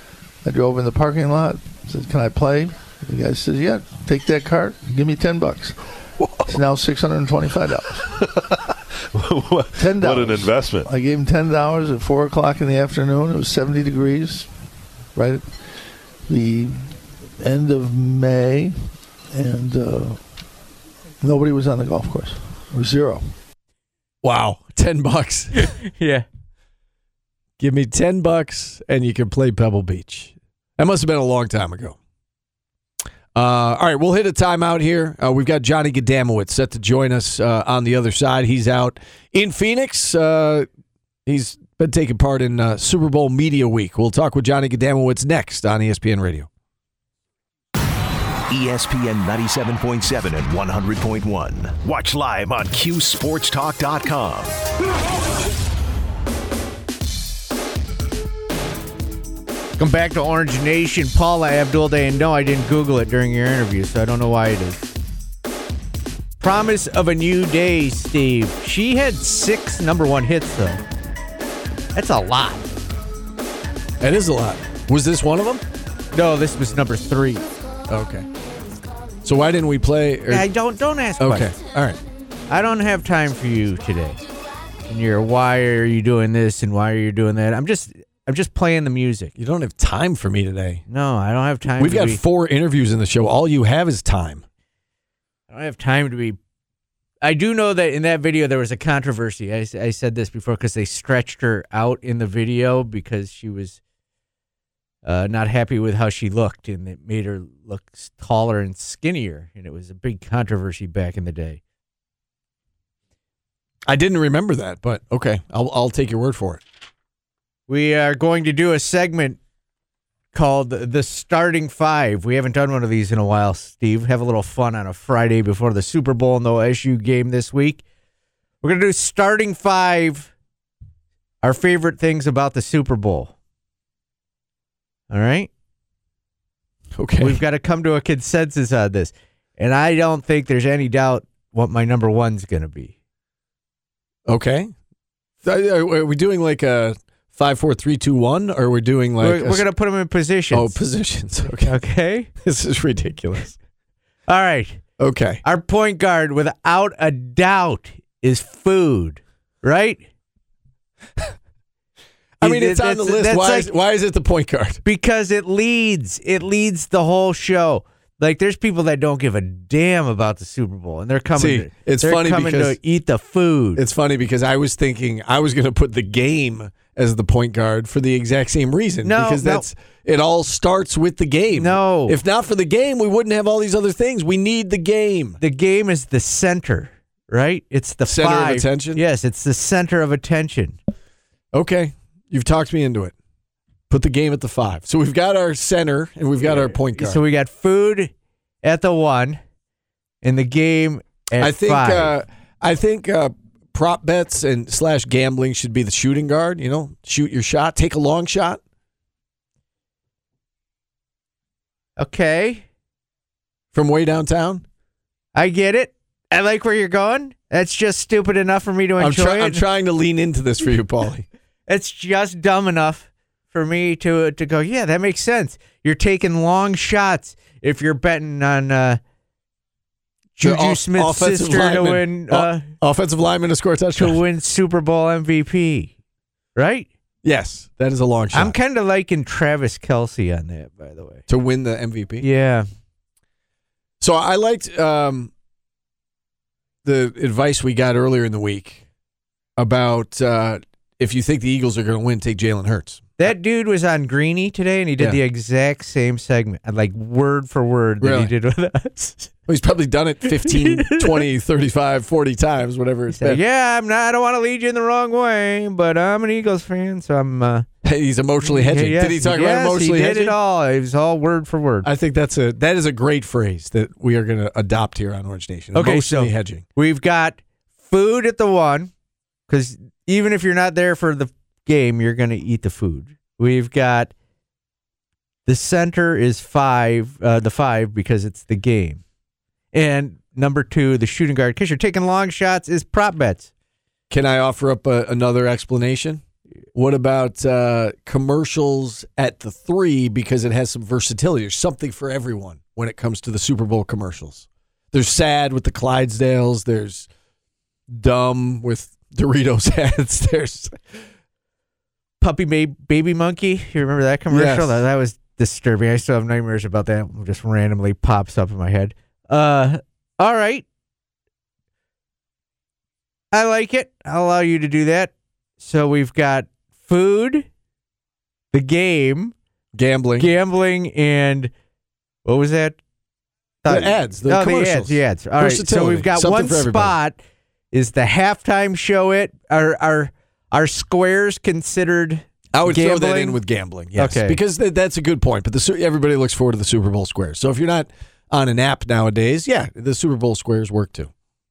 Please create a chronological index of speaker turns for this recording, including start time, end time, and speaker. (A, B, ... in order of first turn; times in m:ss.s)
0:00.4-0:05.8 A
0:06.2-0:06.6 B
0:06.5-0:08.1 A
0:07.9-0:08.6 B
0:09.1-0:10.9 B
0:09.7-0:14.5 A
0:15.1-0:20.2 A
0:21.2-0:23.3 A
0:24.2-0:25.7 C
0:25.6-0:26.2 D
0:27.6-0:32.0 C
0:33.3-0:40.7 C
0:41.2-0:46.5 C
0:48.5-0:54.6 E
0:59.8-1:04.9 D
1:06.4-1:10.8 D
1:11.9-1:12.7 D
1:14.0-1:15.6 C
1:16.1-1:17.5 D
1:17.9-1:18.2 C
1:19.2-1:20.4 C
1:20.3-1:21.5 D
1:21.2-1:22.0 C
1:22.5-1:24.2 D
1:24.9-1:29.3 D
1:29.4-1:30.8 C
1:30.9-1:32.2 D
1:31.8-1:34.4 C
1:35.5-1:36.4 D
1:37.2-1:43.8 D
1:45.0-1:51.6 D
1:53.9-1:56.6 C
1:57.7-1:59.4 D
2:00.3-2:07.8 D
2:08.6-2:10.3 D
2:11.4-2:13.3 D
2:15.1-2:15.5 D
2:17.0-2:17.4 C
2:17.2-2:22.9 D
2:24.2-2:24.7 C
2:25.4-2:29.6 C
2:29.2-2:30.8 D
2:30.5-2:31.7 C
2:31.5-2:32.3 D
2:32.4-2:33.6 C
2:34.3-2:34.8 D
2:35.0-2:35.4 C
2:35.4-2:40.0 D
2:42.4-2:44.8 C
2:42.4-2:43.7 D
2:44.8-2:53.8 D
2:51.4-2:52.8 C
2:53.8-3:05.4 C
2:59.0-2:59.6 D
3:01.5-3:02.1 D
3:05.4-3:10.8 D
3:08.0-3:09.0 C
3:11.5-3:13.1 C
3:13.9-3:17.2 C
3:16.4-3:18.1 D
3:18.6-3:19.4 D
3:20.2-3:22.1 D
3:21.4-3:28.6 C
3:32.0-3:32.6 D
3:33.7-3:34.6 C
3:35.3-3:39.6 D
3:39.0-3:41.3 C
3:41.7-3:49.0 D
3:50.4-3:52.6 D
3:50.4-3:54.2 C
3:54.0-3:55.9 D
3:56.6-3:56.9 D
3:57.2-3:58.5 C
3:58.3-4:01.2 D
4:01.3-4:02.2 C
4:02.2-4:02.7 D
4:04.0-4:05.3 C
4:06.8-4:08.8 C
4:09.6-4:13.2 C
4:13.2-4:19.3 D
4:18.0-4:18.3 C
4:19.5-4:23.4 C
4:20.4-4:21.2 D
4:23.1-4:27.7 D
4:27.8-4:30.3 C
4:28.4-4:31.9 D
4:31.8-4:36.6 C
4:35.7-4:38.9 D
4:39.5-4:44.1 D
4:45.4-4:49.0 D
4:49.7-4:53.5 D
4:54.1-4:56.2 C
4:56.7-5:07.1 C
5:07.9-5:11.0 C
5:12.2-5:20.6 D
5:14.3-5:14.8 C
5:23.3-5:27.5 D
5:28.5-5:29.3 D
5:29.7-5:30.3 C
5:30.2-5:31.5 D
5:32.2-5:32.8 D
5:33.6-5:37.2 D
5:33.7-5:36.9 C
5:37.7-5:43.4 D
5:42.5-5:51.1 C
5:44.0-5:44.4 D